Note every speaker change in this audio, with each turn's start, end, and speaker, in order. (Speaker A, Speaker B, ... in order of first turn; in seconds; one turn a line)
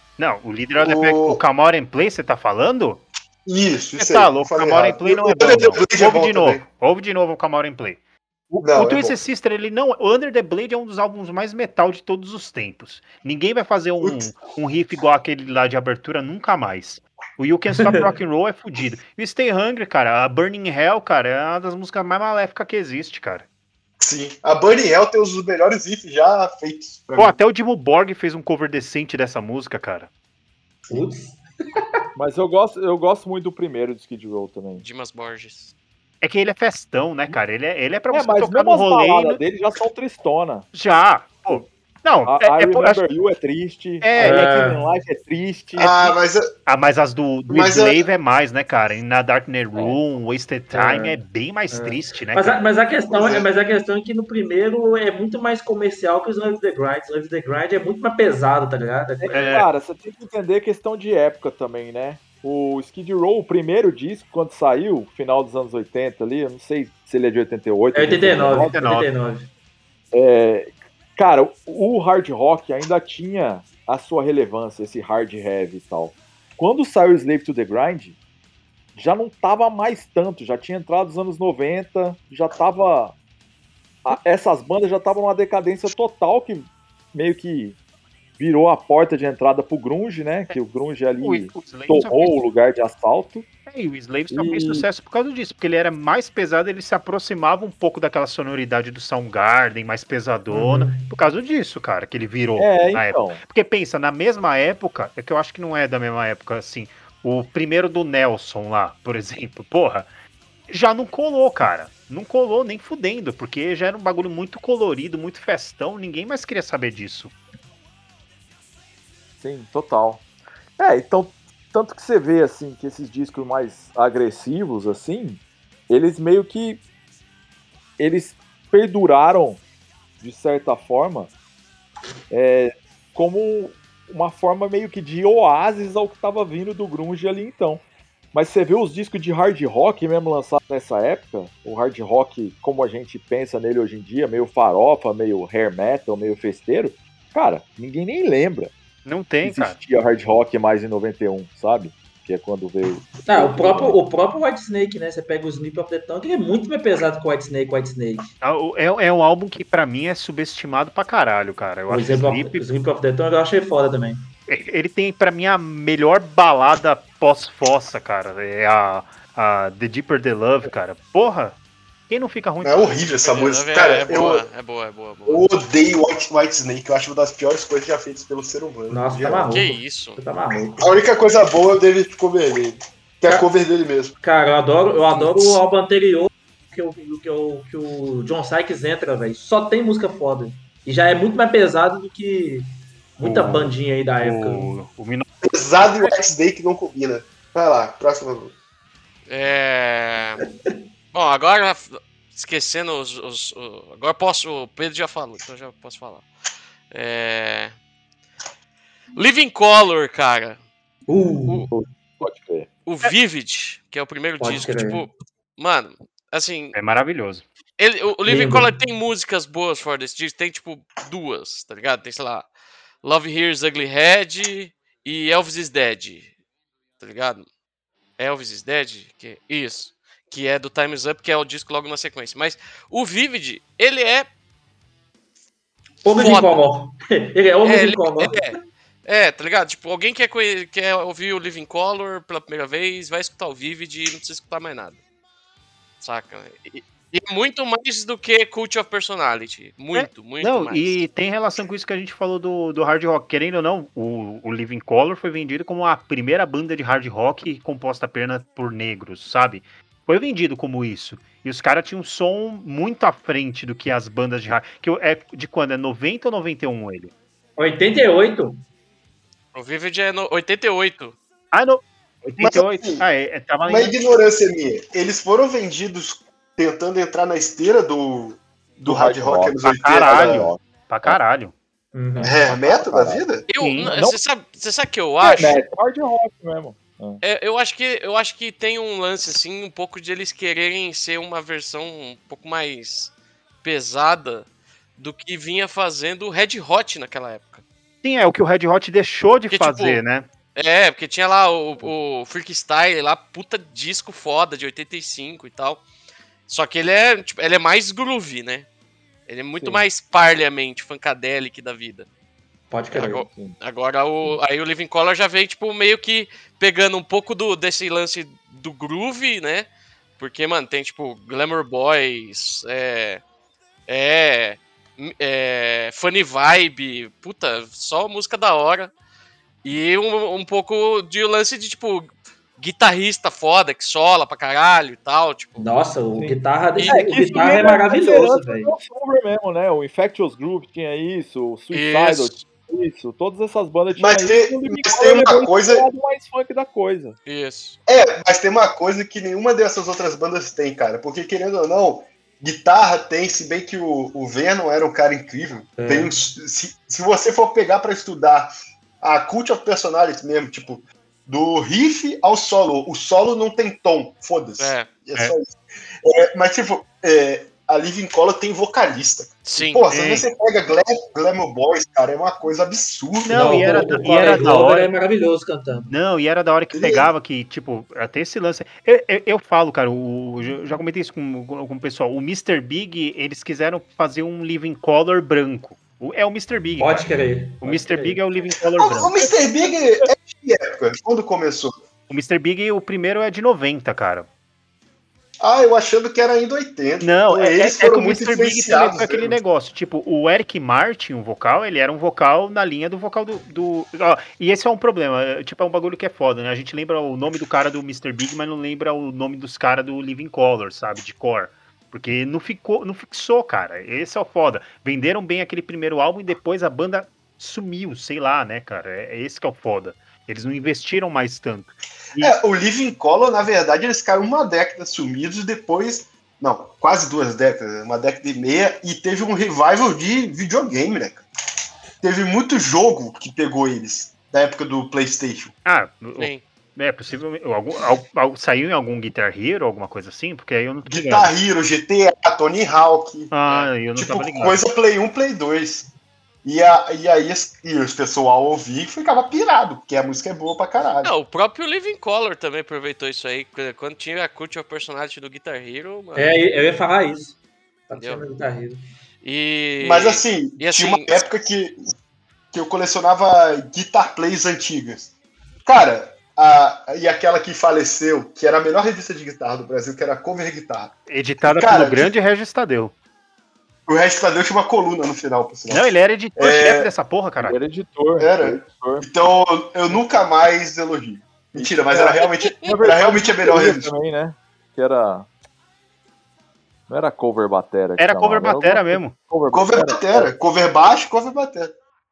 Speaker A: 0.2-3.0
Speaker B: 0.8-1.4
Speaker B: 3.5-6.7
Speaker A: 4.0-23.4
Speaker B: 8.6-9.2
Speaker B: 14.0-14.3
Speaker C: 17.8-18.1
Speaker B: 24.0-27.4
Speaker A: 27.2-30.1
Speaker C: 30.9-31.8
Speaker D: 32.1-34.8
Speaker E: 34.7-35.7
Speaker A: 36.2-39.4
Speaker D: 38.1-40.7
Speaker A: 40.7-43.0
Speaker D: 42.2-46.1
Speaker A: 44.0-44.5
Speaker C: 44.1-44.8
Speaker B: 45.8-46.5
Speaker A: 46.6-52.6
Speaker B: 47.5-48.0
Speaker C: 50.7-51.2
Speaker C: 51.7-59.5
Speaker B: 53.1-53.5
Speaker D: 59.2-68.7
Speaker A: 59.3-59.6
Speaker C: 67.9-69.5
Speaker A: 68.7-69.1
Speaker D: 70.1-78.2
Speaker D: 78.9-83.1
Speaker D: 84.0-87.8
Speaker D: 88.4-93.4
Speaker A: 91.2-92.4
Speaker A: 93.7-110.1
Speaker D: 94.3-94.8
Speaker C: 100.5-101.1
Speaker D: 102.6-103.4
Speaker A: 110.7-117.3
Speaker D: 119.4-120.2
Speaker D: 120.8-126.8
Speaker D: 128.0-129.6
Speaker D: 130.2-131.3
Speaker D: 132.3-137.8
Speaker D: 138.3-148.7
Speaker A: 149.0-149.8
Speaker D: 149.4-153.9
Speaker C: 153.2-158.3
Speaker A: 158.4-162.6
Speaker C: 161.9-164.2
Speaker A: 164.5-171.6
Speaker A: 172.1-172.9
Speaker B: 172.6-174.4
Speaker E: 173.2-175.5
Speaker B: 175.2-179.5
Speaker C: 178.9-180.9
Speaker E: 179.5-180.2
Speaker B: 180.8-184.1
Speaker C: 184.2-194.7
Speaker A: 193.2-195.2
Speaker B: 195.4-198.5
Speaker E: 199.3-200.5
Speaker E: 201.1-206.3
Speaker E: 206.9-207.7
Speaker E: 209.1-210.6
Speaker C: 211.1-211.7
Speaker D: 211.7-212.7
Speaker E: 212.8-216.8
Speaker C: 214.4-215.1
Speaker A: 216.7-217.4
Speaker E: 217.8-222.5
Speaker C: 218.2-218.7
Speaker E: 223.0-226.3
Speaker E: 227.0-227.5
Speaker E: 228.2-234.3
Speaker C: 236.0-238.5
Speaker E: 236.1-236.6
Speaker E: 237.6-245.0
Speaker E: 246.0-251.0
Speaker A: 249.9-267.1
Speaker C: 267.6-268.6
Speaker E: 269.5-271.1
Speaker A: 271.5-273.9
Speaker B: 272.4-273.0
Speaker B: 273.6-280.5
Speaker D: 278.8-281.2
Speaker A: 279.8-281.5
Speaker C: 281.9-282.4
Speaker B: 282.2-283.4
Speaker D: 282.5-283.2
Speaker E: 283.5-285.6
Speaker A: 283.6-283.9
Speaker D: 283.8-284.2
Speaker D: 285.2-287.2
Speaker E: 287.2-293.1
Speaker E: 293.6-297.6
Speaker A: 298.0-300.3
Speaker E: 299.5-300.0
Speaker E: 300.5-305.8
Speaker E: 306.5-308.7
Speaker E: 309.3-312.1
Speaker C: 312.7-313.2
Speaker E: 312.9-319.7
Speaker D: 313.0-313.6
Speaker E: 320.2-323.2
Speaker E: 323.9-328.9
Speaker E: 329.6-335.7
Speaker C: 335.6-338.7
Speaker D: 336.1-347.2
Speaker E: 336.7-337.5
Speaker E: 341.7-342.4
Speaker B: 344.0-345.9
Speaker E: 347.2-347.8
Speaker B: 347.9-373.9
Speaker C: 355.8-356.1
Speaker E: 364.6-364.9
Speaker E: 369.4-369.8
Speaker A: 369.9-370.3
Speaker A: 373.2-374.9
Speaker C: 373.3-375.9
Speaker A: 375.9-387.1
Speaker B: 376.7-377.1
Speaker C: 386.8-388.2
Speaker A: 387.6-389.3
Speaker B: 388.8-391.8
Speaker A: 392.1-394.3
Speaker B: 395.4-399.4
Speaker A: 397.0-422.3
Speaker B: 422.2-431.2
Speaker B: 432.0-435.5
Speaker A: 435.6-441.3
Speaker E: 436.2-436.4
Speaker B: 440.9-443.3
Speaker A: 443.3-444.6
Speaker B: 443.9-445.9
Speaker B: 446.4-451.1
Speaker E: 451.0-456.4
Speaker C: 456.1-457.4
Speaker C: 457.9-458.8
Speaker E: 458.0-458.2
Speaker E: 459.2-461.2
Speaker B: 459.8-461.8
Speaker B: 462.5-465.1
Speaker B: 465.6-472.1
Speaker A: 471.1-472.9
Speaker B: 473.9-476.9
Speaker A: 475.7-477.6
Speaker D: 477.4-479.2
Speaker B: 478.2-483.9
Speaker D: 481.6-485.3
Speaker E: 482.2-482.7
Speaker D: 486.9-490.3
Speaker A: 488.0-489.2
Speaker B: 489.5-491.7